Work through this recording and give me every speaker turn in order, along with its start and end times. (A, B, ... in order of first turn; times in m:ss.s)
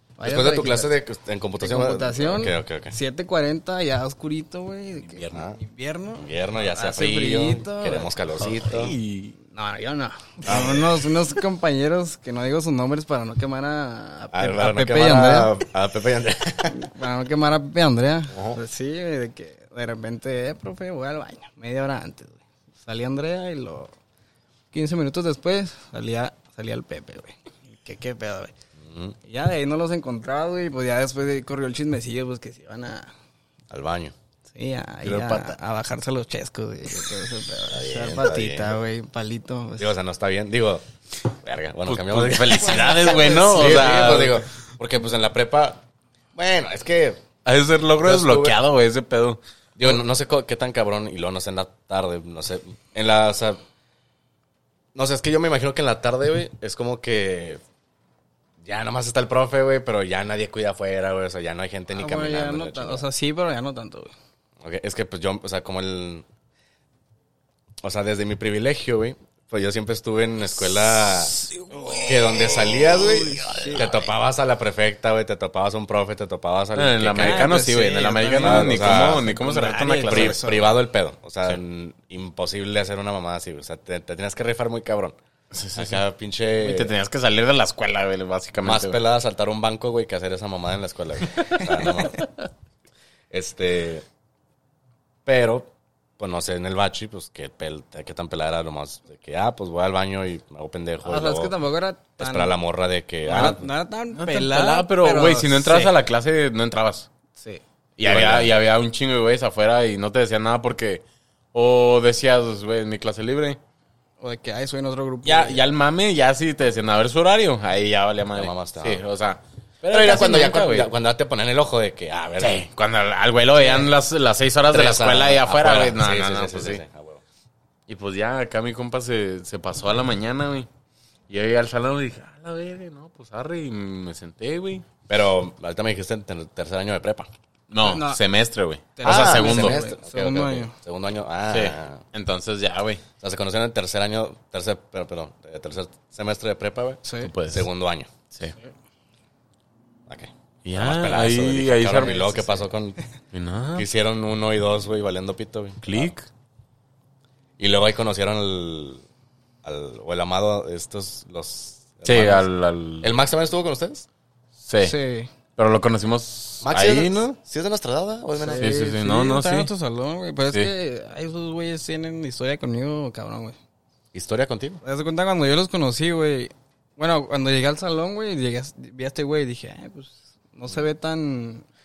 0:00.2-0:00.9 A
0:00.2-0:02.9 B
0:01.6-0:08.2 A
0:05.0-0:05.4 C
0:05.3-0:05.6 B
0:06.2-0:09.0 B
0:08.4-0:09.4 C
0:09.4-0:15.6 A
0:10.4-0:11.0 B
0:14.3-0:16.8 B
0:16.7-0:23.9 A
0:18.3-0:18.6 C
0:24.7-0:28.5 A
0:28.8-0:29.2 B
0:29.2-0:33.1 A
0:33.7-0:34.1 B
0:34.5-0:39.9 A
0:35.0-0:35.6 C
0:37.7-0:38.8 B
0:39.8-0:45.8 B
0:41.9-0:44.4 C
0:42.6-0:44.1 A
0:46.3-0:47.2 B
0:47.4-0:49.4 C
0:48.0-0:48.6 B
0:49.8-0:53.6 B
0:54.9-0:57.6 B
0:58.6-1:03.0 B
1:01.9-1:04.1 A
1:04.6-1:06.2 B
1:07.8-1:11.4 B
1:11.0-1:14.0 C
1:11.7-1:12.2 A
1:12.0-1:17.7 B
1:13.0-1:13.8 A
1:16.7-1:20.5 C
1:17.2-1:20.8 A
1:18.3-1:19.2 B
1:20.0-1:25.2 B
1:25.5-1:26.0 C
1:25.8-1:26.9 B
1:26.6-1:29.0 C
1:28.6-1:32.3 B
1:33.3-1:34.0 B
1:35.2-1:41.5 B
1:41.0-1:42.5 A
1:42.2-1:43.6 B
1:43.3-1:45.9 A
1:43.3-1:47.1 C
1:48.0-1:53.6 C
1:48.0-1:48.5 B
1:54.2-1:55.6 A
1:55.2-2:00.9 C
1:58.3-1:59.0 B
1:59.9-2:02.6 B
2:02.4-2:06.8 C
2:04.7-2:07.2 B
2:07.9-2:10.7 C
2:11.3-2:14.8 C
2:15.1-2:17.3 B
2:17.7-2:19.8 C
2:17.8-2:18.2 A
2:19.0-2:20.7 A
2:19.0-2:22.0 B
2:21.5-2:23.0 C
2:23.2-2:28.1 B
2:27.0-2:27.3 A
2:27.2-2:27.7 C
2:30.1-2:33.0 B
2:30.6-2:32.4 C
2:32.0-2:32.6 A
2:33.3-2:33.9 C
2:33.8-2:36.1 B
2:35.8-2:36.3 C
2:37.6-2:39.0 B
2:39.6-2:42.5 B
2:42.0-2:43.1 C
2:43.0-2:44.0 B
2:44.6-2:44.9 C
2:44.8-2:45.3 A
2:45.6-2:47.3 C
2:46.6-2:48.7 B
2:48.4-2:53.6 A
2:48.6-2:49.7 C
2:54.1-2:54.8 B
2:54.8-3:01.6 A